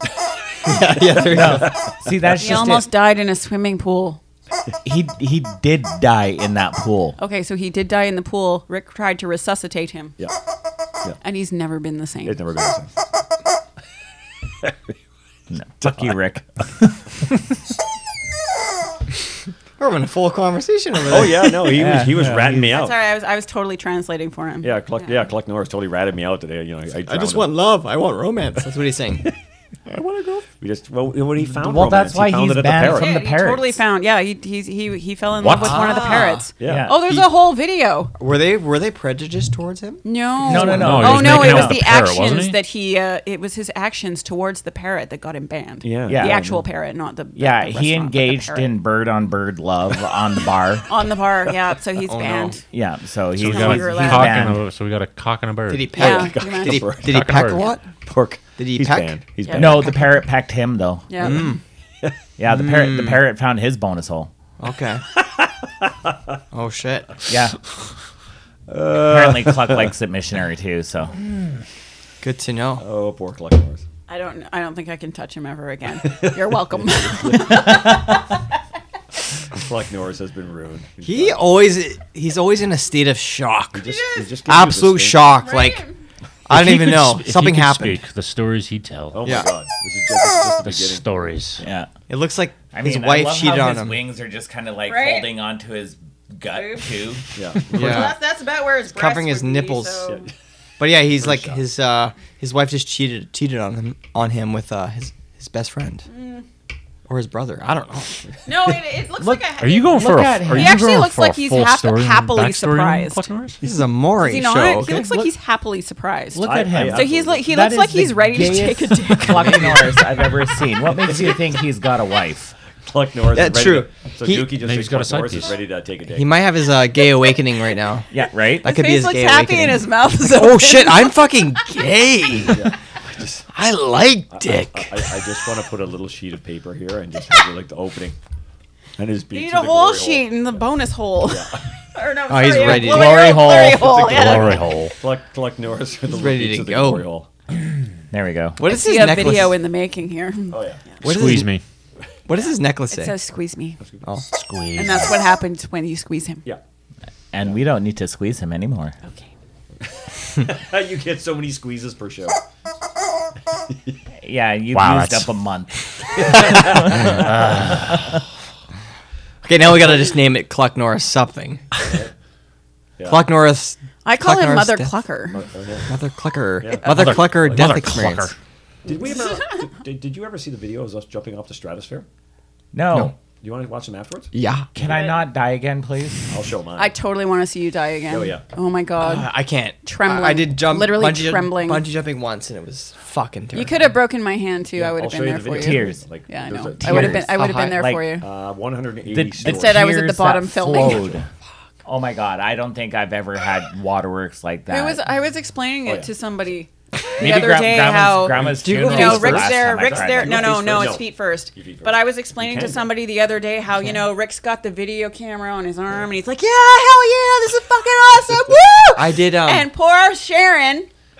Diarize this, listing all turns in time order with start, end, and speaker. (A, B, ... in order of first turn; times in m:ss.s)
0:00.6-0:01.8 A
0:00.7-0:02.7 B
0:01.2-0:02.9 C
0:02.4-0:04.2 D
0:04.8-0:07.2 C
0:07.2-0:10.1 D
0:11.2-0:12.4 D
0:12.2-0:12.9 B
0:15.5-0:17.2 C
0:15.8-0:16.2 B
0:19.8-0:21.9 A
0:21.1-0:23.0 B
0:21.7-0:22.7 C
0:22.7-0:25.2 D
0:24.6-0:27.5 B
0:27.1-0:29.3 A
0:29.9-0:30.4 A
0:30.6-0:33.2 B
0:31.5-0:33.8 C
0:32.8-0:38.1 D
0:35.4-0:36.2 E
0:35.6-0:36.5 A
0:36.6-0:36.9 B
0:36.6-0:37.2 C
0:38.1-0:40.9 A
0:40.0-0:48.7 D
0:40.4-0:41.8 C
0:40.6-0:42.6 E
0:45.8-0:46.6 B
0:46.1-0:46.5 C
0:47.4-0:50.9 C
0:50.9-0:52.6 D
0:52.0-0:52.6 A
0:52.7-0:54.6 C
0:53.4-0:56.2 E
0:53.4-0:54.4 D
0:55.7-0:57.8 A
0:55.9-0:56.9 D
0:56.0-0:57.3 B
0:57.0-0:57.7 E
0:58.0-0:59.9 B
0:58.6-0:59.2 A
0:59.4-0:59.8 D
0:59.5-1:01.5 C
1:01.1-1:01.5 D
1:01.2-1:01.6 A
1:02.4-1:04.3 C
1:02.5-1:03.2 A
1:04.6-1:05.0 A
1:05.2-1:06.1 B
1:06.5-1:07.1 A
1:07.3-1:07.6 C
1:08.7-1:09.9 B
1:08.9-1:11.2 C
1:12.2-1:12.8 A
1:12.8-1:13.8 B
1:14.1-1:18.2 D
1:16.1-1:17.7 B
1:17.5-1:17.9 C
1:19.5-1:21.4 B
1:21.0-1:23.9 A
1:23.7-1:25.4 B
1:23.8-1:24.3 D
1:24.4-1:25.8 A
1:25.4-1:26.0 D
1:26.5-1:28.0 A
1:26.5-1:29.3 E
1:29.1-1:31.0 B
1:29.2-1:29.5 A
1:30.6-1:31.6 E
1:31.6-1:31.9 C
1:32.1-1:34.0 A
1:32.7-1:37.2 C
1:34.8-1:35.3 D
1:36.5-1:37.0 D
1:37.3-1:38.1 B
1:37.7-1:40.3 D
1:37.7-1:38.2 A
1:38.9-1:40.1 A
1:40.8-1:46.0 A
1:41.2-1:41.6 B
1:46.1-1:46.4 D
1:47.1-1:48.3 A
1:48.4-1:53.3 D
1:49.2-1:50.8 C
1:49.6-1:53.6 E
1:53.6-1:55.2 A
1:54.2-1:59.8 D
1:56.3-2:02.5 C
1:56.4-1:57.4 B
2:01.0-2:01.4 B
2:02.8-2:06.3 B
2:03.3-2:04.5 A
2:04.6-2:05.6 E
2:06.1-2:08.1 A
2:08.1-2:08.7 C
2:08.6-2:12.7 A
2:08.6-2:11.4 D
2:12.5-2:13.4 B
2:13.5-2:15.2 A
2:14.3-2:18.2 B
2:19.0-2:20.5 B
2:19.3-2:24.9 D
2:21.2-2:21.6 B
2:22.3-2:24.1 A
2:22.8-2:27.3 B
2:24.0-2:24.9 E
2:26.1-2:27.0 A
2:28.1-2:28.6 C
2:28.6-2:29.6 A
2:28.6-2:30.6 D
2:30.5-2:30.8 B
2:31.0-2:31.6 E
2:31.0-2:31.5 A
2:32.3-2:33.1 A
2:32.9-2:33.8 D
2:34.3-2:35.2 E
2:34.7-2:36.4 D
2:37.3-2:39.0 C
2:39.0-2:39.3 D
2:40.3-2:42.4 B
2:44.2-2:48.2 C
2:44.7-2:45.3 E
2:46.2-2:47.1 B
2:47.1-2:48.0 E
2:49.4-2:52.0 A
2:51.8-2:52.1 B
2:53.0-2:53.2 B
2:53.1-2:55.0 A
2:54.0-2:55.4 D
2:55.3-2:55.9 B
2:55.9-2:58.3 A
2:56.6-2:57.7 B
2:56.8-2:58.4 E
2:58.8-3:02.0 B
2:59.2-2:59.6 D
3:02.7-3:03.1 C
3:03.4-3:04.3 B
3:04.3-3:04.7 A
3:04.7-3:06.3 C
3:04.8-3:05.2 D
3:06.3-3:06.9 B
3:06.8-3:09.3 D
3:08.1-3:08.4 B
3:09.0-3:13.8 A
3:09.8-3:11.8 D
3:13.5-3:18.2 D
3:14.8-3:17.3 B
3:15.5-3:16.0 C
3:16.8-3:18.1 C
3:16.8-3:17.8 A
3:18.2-3:19.8 B
3:19.1-3:21.2 C
3:19.4-3:21.1 D
3:21.8-3:25.0 C
3:24.7-3:40.9 D
3:27.2-3:30.6 C
3:28.2-3:32.9 B
3:28.6-3:29.5 A
3:30.5-3:30.8 A
3:38.9-3:39.7 A